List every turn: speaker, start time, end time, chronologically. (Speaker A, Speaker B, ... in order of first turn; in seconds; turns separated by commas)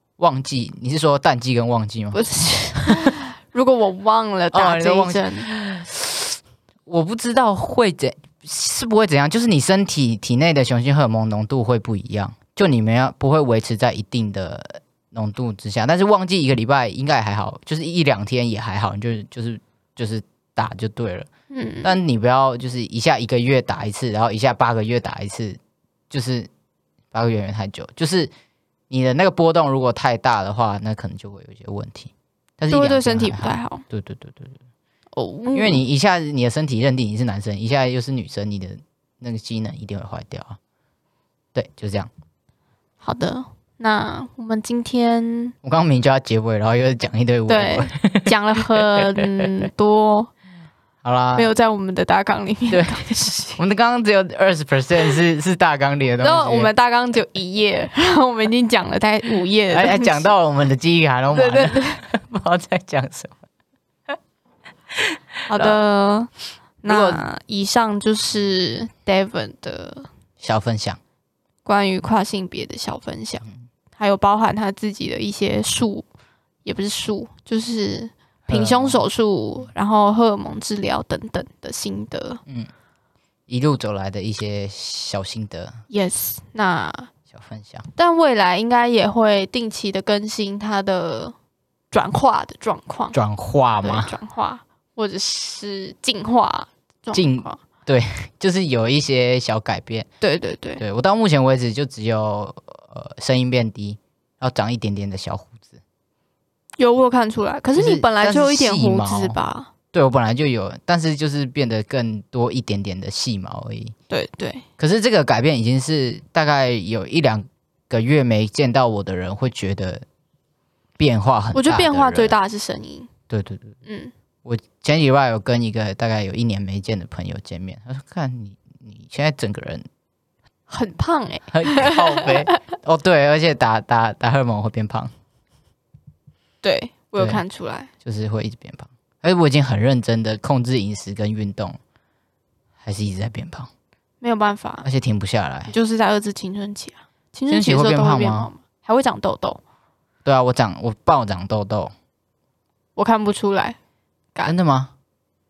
Speaker A: 0.2-2.2, Speaker B: 2.1-5.5, Speaker A: 4.5-21.3, Speaker B: 21.5-21.9, Speaker A: 21.8-25.6, Speaker A: 26.1-26.5, Speaker A: 27.1-28.3, Speaker A: 28.9-34.6, Speaker B: 32.7-33.8, Speaker B: 35.1-35.8, Speaker A: 35.5-40.6, Speaker A: 41.5-42.1, Speaker B: 43.0-45.5, Speaker A: 45.6-49.7, Speaker B: 47.5-50.3, Speaker A: 51.0-51.5, Speaker B: 51.3-53.6, Speaker A: 52.7-53.0, Speaker A: 53.6-56.7, Speaker B: 56.2-60.3, Speaker A: 59.7-63.4, Speaker B: 61.3-62.0, Speaker A: 65.5-65.8, Speaker B: 65.5-66.3, Speaker B: 66.8-70.1, Speaker A: 66.9-67.2, Speaker A: 70.4-71.0, Speaker B: 71.6-73.5, Speaker B: 74.0-76.0, Speaker B: 76.6-82.4, Speaker A: 78.5-79.0, Speaker A: 83.5-85.8, Speaker B: 85.9-87.1, Speaker A: 87.3-87.9, Speaker B: 88.0-91.3, Speaker B: 91.9-93.2, Speaker A: 93.1-94.1, Speaker B: 93.8-97.6, Speaker A: 97.1-100.1, Speaker B: 100.2-100.8, Speaker A: 100.8-105.8, Speaker B: 106.8-109.7, Speaker A: 107.8-109.3, Speaker A: 109.9-113.9, Speaker B: 114.1-114.6, Speaker A: 114.8-120.0, Speaker A: 121.0-122.3, Speaker B: 121.5-123.1, Speaker A: 123.3-123.8, Speaker B: 123.8-124.1, Speaker A: 124.4-129.8, Speaker B: 130.7-132.5, Speaker A: 131.5-135.1, Speaker B: 136.6-137.9, Speaker A: 138.0-141.8, Speaker A: 142.8-143.7, Speaker B: 144.2-144.8, Speaker A: 144.8-145.7, Speaker B: 145.7-149.6, Speaker A: 147.5-148.5, Speaker A: 150.2-151.9, Speaker B: 152.9-153.8, Speaker A: 154.4-154.9